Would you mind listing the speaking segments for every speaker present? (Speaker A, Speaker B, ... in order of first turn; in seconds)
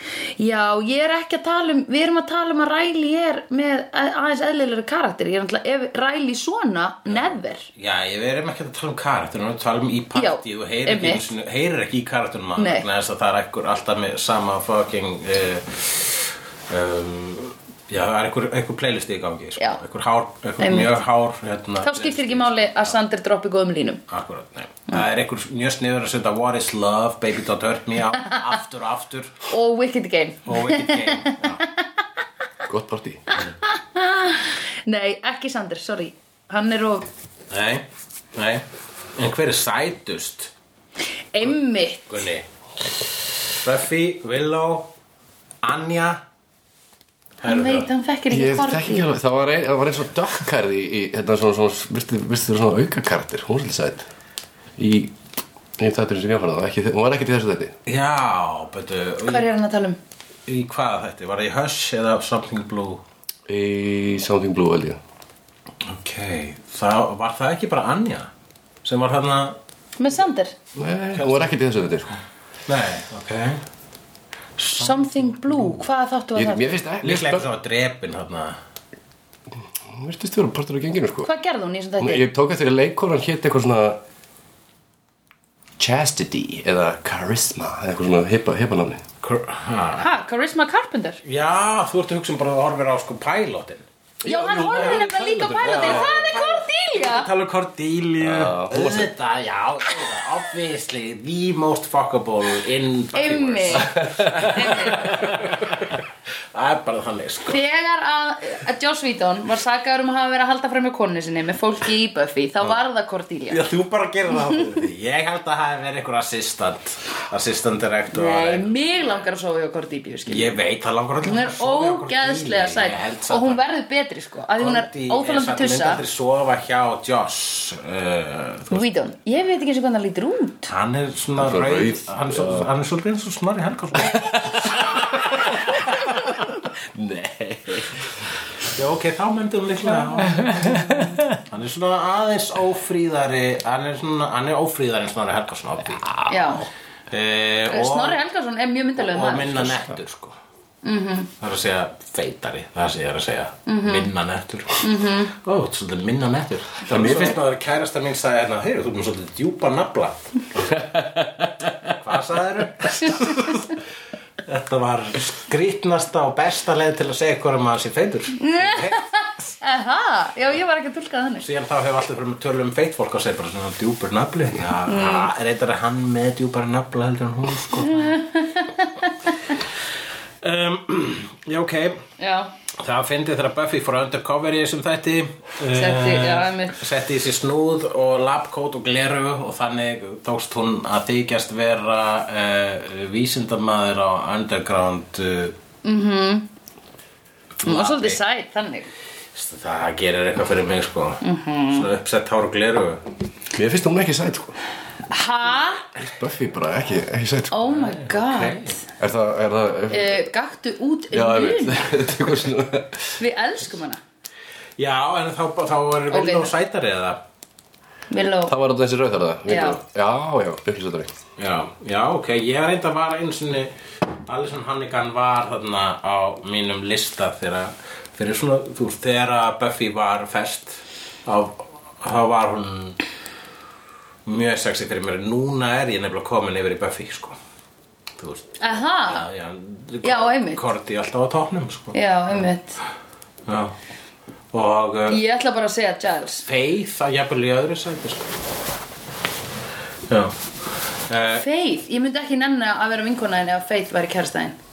Speaker A: 0.4-7.7, 10.1-11.3, 12.6-12.9, 20.6-21.0, 21.8-24.0, 29.5-31.8, 33.3-37.1, 41.3-42.2, 47.5-49.1, 59.2-60.0, 70.0-70.5, 74.8-76.7, 81.2-82.3, 90.0-91.2, 94.2-97.3, 103.1-105.2, 107.5-113.6, 118.1-120.5, 121.2-126.0, 128.7-130.7, 140.0-141.2, 146.3-146.7, 147.7-149.8, 150.8-151.3, 153.7-154.1, 154.8-155.3, 162.9-163.6, 168.4-171.5, 174.9-175.3, 177.8-179.5, 182.2-182.5, 185.7-186.8, 195.8-196.5, 197.7-198.9, 201.2-201.9, 205.1-205.9, 207.5-208.8, 209.9-211.9, 213.2-214.0, 216.1-216.5, 218.1-218.5, 219.5-219.8, 238.6-239.3, 240.0-240.7, 241.9-242.8, 245.1-246.4, 251.4-254.6
Speaker B: 7.1-23.0, 24.1-29.4, 30.5-31.6, 37.5-38.6, 39.2-40.5, 42.1-42.5, 43.5-44.9, 45.6-46.2, 47.4-47.9, 57.9-59.5, 60.5-63.0, 65.8-68.3, 68.8-69.6, 71.2-71.5, 72.7-73.6, 74.6-75.8, 77.0-78.6, 89.2-90.1, 91.2-93.8, 94.7-95.1, 95.6-107.6, 113.5-118.7, 120.3-123.6, 124.6-128.8, 130.7-135.1, 138.8-146.0, 147.1-148.2, 149.0-150.4, 151.4-160.7, 161.9-163.5, 164.4-169.0, 171.4-178.2, 180.4-182.0, 182.8-195.6, 197.6-198.2, 199.3-203.0, 207.7-208.8, 214.8-217.2, 221.4-233.0, 234.3-237.4, 238.2-242.5, 243.5-243.8, 244.5-245.2, 246.4-248.3, 250.1-251.4
Speaker C: 32.7-33.2, 48.3-54.1, 54.8-55.2, 55.8-57.7, 63.5-65.0, 70.8-72.2, 76.4-77.5, 79.9-81.3, 82.0-84.0, 85.8-89.0, 94.2-96.2, 98.2-99.1, 103.9-104.6, 131.4-132.7, 134.8-138.4, 140.4-141.2, 146.0-146.5, 156.9-157.4, 160.8-161.9, 203.6-204.6, 205.9-208.0, 209.0-210.2, 211.1-213.2, 218.5-221.1